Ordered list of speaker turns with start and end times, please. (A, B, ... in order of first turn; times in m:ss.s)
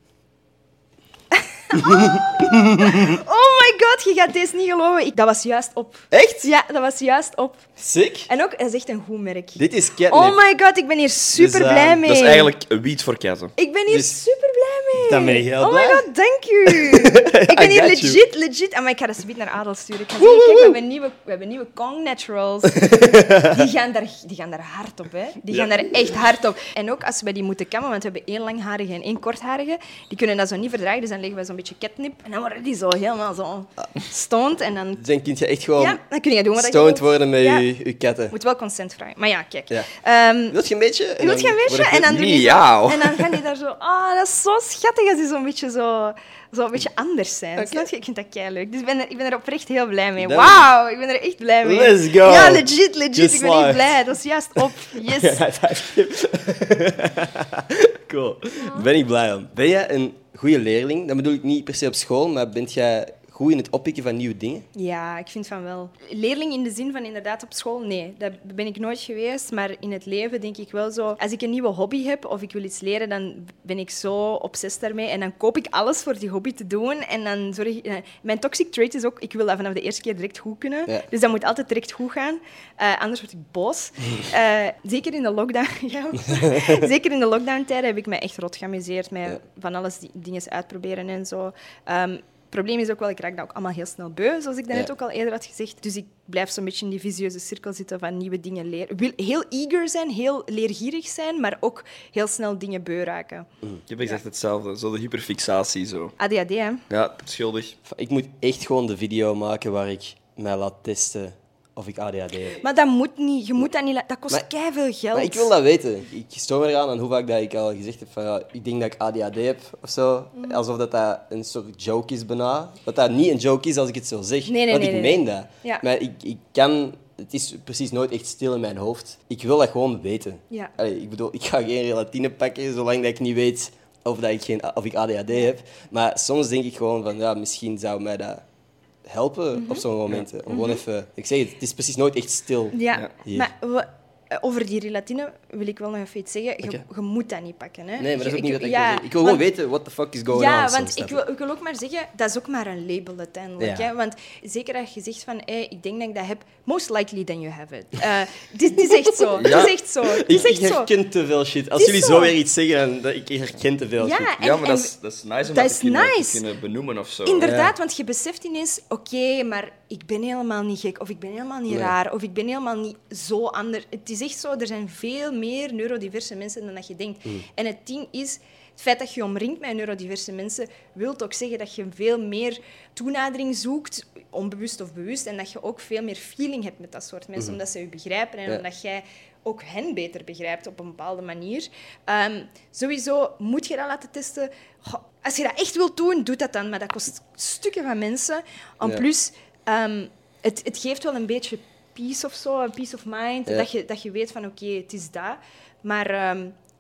0:01.4-0:07.7 A
0:01.8-0:03.2 B
0:06.1-0:06.5 B
0:07.8-0:08.3 B
0:08.3-0:12.5 A
0:09.6-0:10.4 B
0:11.3-0:12.0 B
0:12.0-0:13.5 C
0:13.6-0:35.0 A
0:13.9-0:14.2 B
0:15.0-0:16.1 B
0:16.7-0:18.2 B
0:20.2-0:20.7 B
0:22.8-0:23.5 B
0:35.0-0:36.0 B
0:35.8-0:37.7 A
0:36.6-0:38.3 B
0:38.3-0:40.6 A
0:40.5-0:42.2 B
0:41.2-0:55.4 A
0:42.0-0:43.3 C
0:47.6-0:47.9 B
0:50.2-0:50.7 B
0:51.6-0:54.0 B
0:55.0-1:04.7 B
0:58.6-0:58.9 A
1:04.7-1:43.5 A
1:26.5-1:26.8 B
1:43.9-1:46.1 C
1:46.2-1:46.8 A
1:46.9-1:47.8 C
1:47.9-1:52.6 B
1:52.6-1:55.5 A
1:55.1-2:18.4 B
2:00.4-2:00.6 A
2:04.5-2:05.8 A
2:19.0-2:23.5 B
2:19.5-2:19.8 A
2:20.5-2:20.8 A
2:22.7-2:29.4 A
2:28.0-2:31.2 B
2:30.3-2:40.9 A
2:33.6-2:33.9 B
2:39.3-2:44.3 B
2:41.8-2:42.4 A
2:44.0-2:44.9 A
2:44.4-2:47.5 C
2:45.5-2:46.4 A
2:47.2-3:26.6 A
2:47.4-2:47.7 B
2:51.7-2:51.9 B